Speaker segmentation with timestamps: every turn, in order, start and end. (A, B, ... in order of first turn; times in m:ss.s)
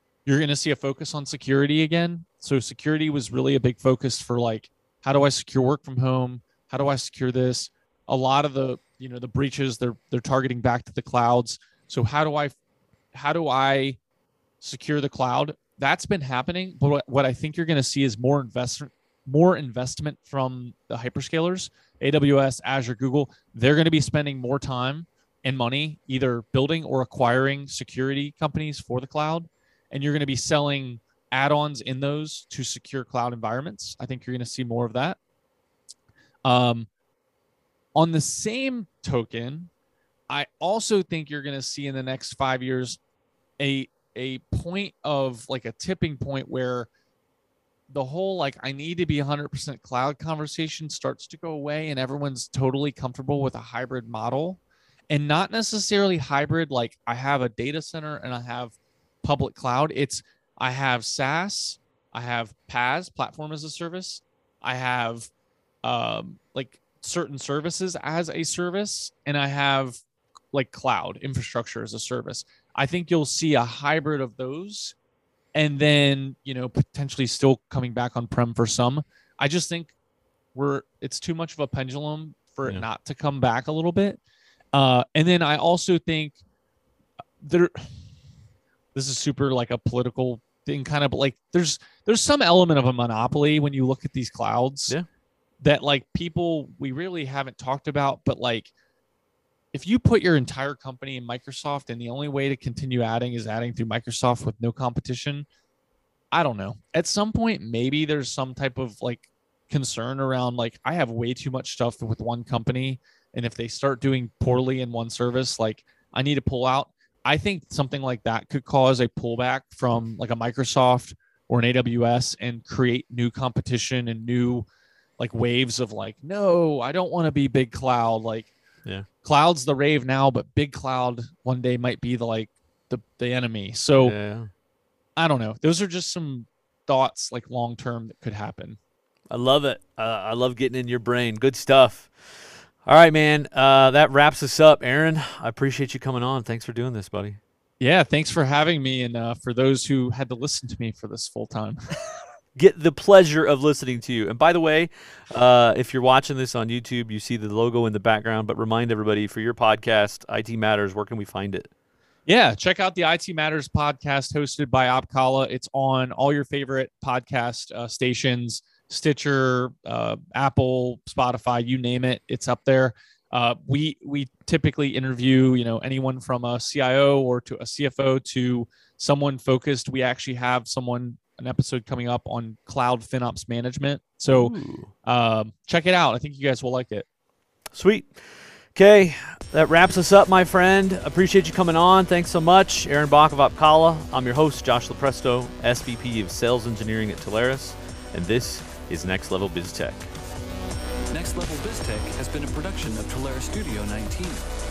0:00.2-0:12.6 A
0:13.1-0:14.0 A
0:14.6-0:35.2 A
0:36.4-0:36.9 A
0:37.9-0:39.7 A
0:40.3-0:43.0 A
0:43.6-0:46.9 A
0:47.9-1:05.3 A
1:05.8-1:10.0 A
1:10.5-1:14.9 A
1:15.5-1:19.9 A
1:20.5-1:24.2 A
1:24.7-1:26.4 A
1:27.4-1:28.0 A
1:28.9-1:35.0 A
1:35.6-1:38.7 A
1:39.7-1:45.5 A
1:46.3-2:04.7 A
2:05.2-2:08.5 A
2:09.2-2:14.1 A
2:14.0-2:14.5 B
2:15.2-2:18.8 A
2:19.3-2:27.4 B
2:27.8-2:31.9 A
2:32.6-2:41.7 B
2:42.2-3:07.0 A
3:04.3-3:04.9 B
3:07.7-3:20.1 B
3:21.1-3:24.4 C